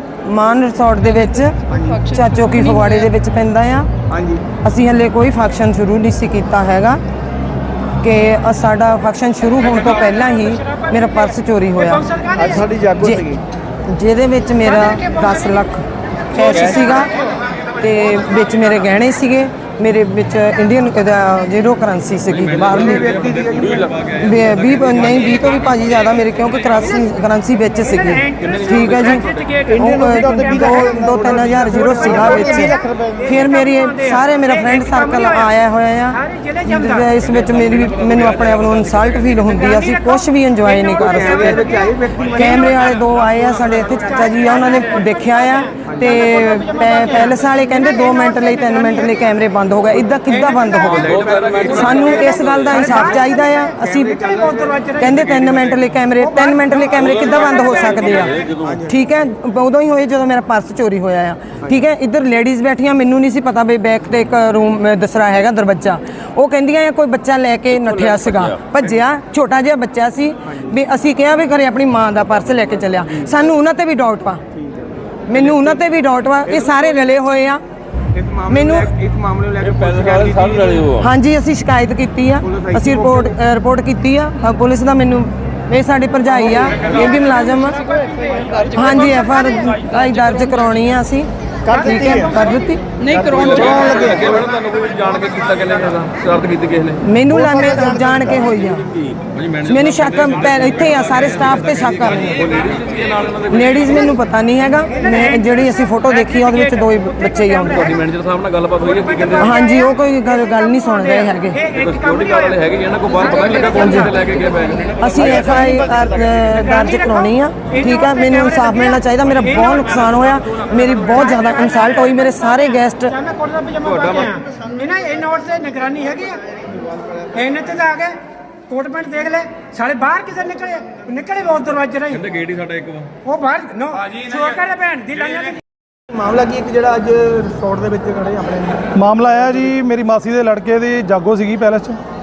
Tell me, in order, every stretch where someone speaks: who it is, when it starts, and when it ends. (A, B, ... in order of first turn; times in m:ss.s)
0:00.2-0:03.9 A
0:01.7-0:02.0 B
0:04.1-0:04.4 B
0:04.6-0:07.0 A
0:08.0-0:12.0 A
0:09.8-0:12.7 C
0:12.4-0:13.4 B
0:13.0-0:13.3 A
0:13.9-0:17.2 A
0:14.6-0:15.6 C
0:16.3-0:17.2 C
0:16.4-0:16.9 D
0:17.8-0:23.2 A
0:22.3-0:25.6 D
0:22.5-0:24.0 B
0:24.1-0:41.7 A
0:26.8-0:27.0 C
0:27.8-0:35.5 C
0:28.4-0:29.6 D
0:36.1-0:37.1 C
0:37.2-0:39.3 D
0:39.3-0:49.2 C
0:40.7-0:42.8 B
0:42.2-0:51.2 A
0:45.9-0:46.2 B
0:50.2-0:58.5 C
0:50.7-0:52.9 D
0:51.0-0:53.2 B
0:51.7-0:54.2 A
0:53.8-0:54.9 B
0:55.0-1:14.4 A
0:57.0-0:58.8 D
0:58.6-0:59.0 B
1:10.5-1:10.8 B
1:13.0-1:13.3 B
1:14.5-1:15.8 B
1:15.3-1:17.6 A
1:16.4-1:17.1 B
1:18.1-1:20.9 B
1:18.5-1:18.9 A
1:19.6-1:21.0 D
1:21.0-1:27.8 A
1:22.4-1:23.3 B
1:26.9-1:29.9 C
1:28.7-1:32.8 A
1:31.7-1:32.7 C
1:31.7-1:32.3 B
1:33.0-1:34.5 B
1:33.3-1:37.0 D
1:37.0-1:38.9 A
1:39.0-1:44.1 D
1:39.6-1:42.5 A
1:43.4-1:47.9 A
1:44.9-1:48.0 C
1:47.7-1:49.6 D
1:48.8-1:54.3 C
1:49.4-1:51.6 A
1:51.7-1:56.0 D
1:53.6-1:54.2 A
1:55.0-2:03.1 A
1:55.2-1:55.7 C
1:56.5-2:00.2 C
2:00.8-2:06.4 C
2:03.8-2:04.3 D
2:07.3-2:12.2 C
2:12.1-2:13.1 D
2:13.2-2:15.6 C
2:16.1-2:18.9 B
2:18.9-2:22.0 E